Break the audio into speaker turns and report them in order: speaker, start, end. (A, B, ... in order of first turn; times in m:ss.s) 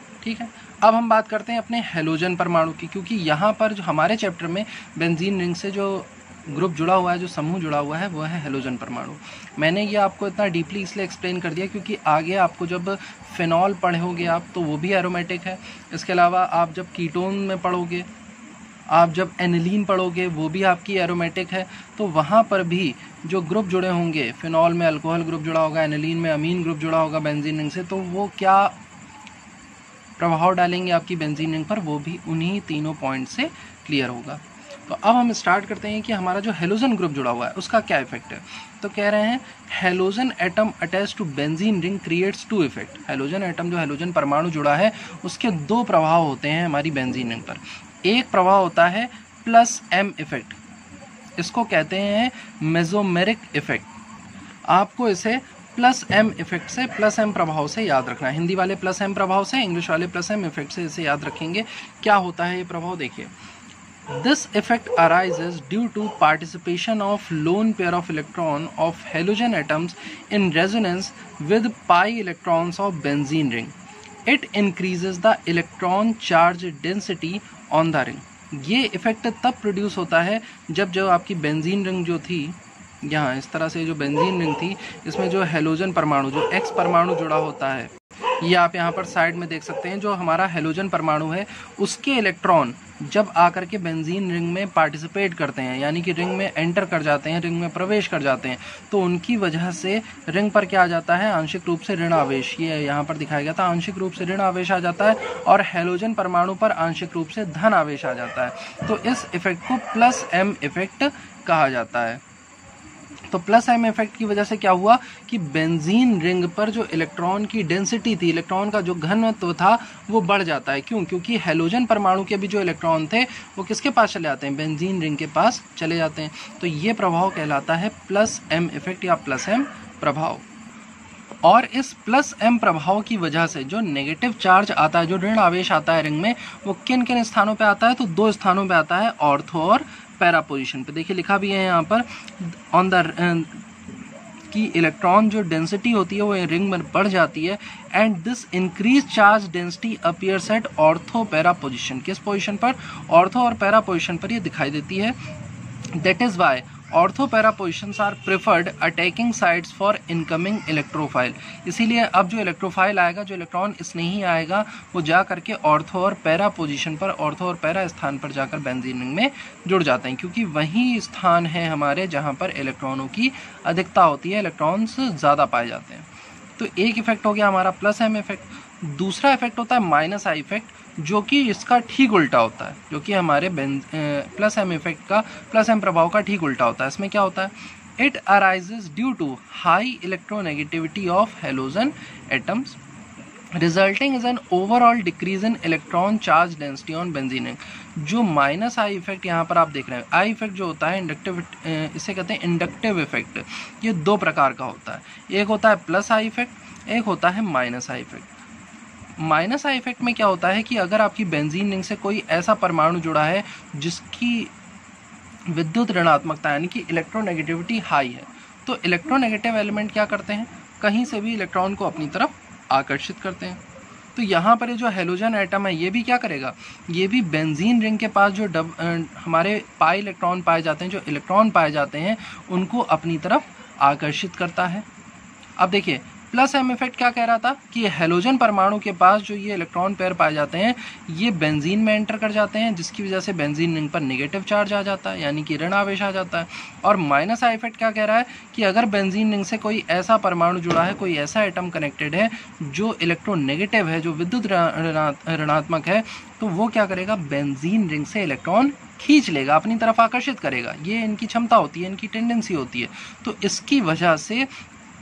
0:00.2-0:18.1 A
0:18.9-0:28.7 A
0:30.2-0:50.6 A
0:51.4-0:53.9 A
0:54.7-1:03.3 A
1:04.1-1:13.7 A
1:14.2-1:52.2 A
1:53.3-2:10.4 A
2:11.4-2:23.6 A
2:24.5-2:35.2 A
2:35.9-3:12.8 A
3:13.5-3:28.3 A
3:29.2-3:34.5 A
3:35.5-3:43.6 A
3:44.1-3:54.8 A
3:55.6-4:24.5 A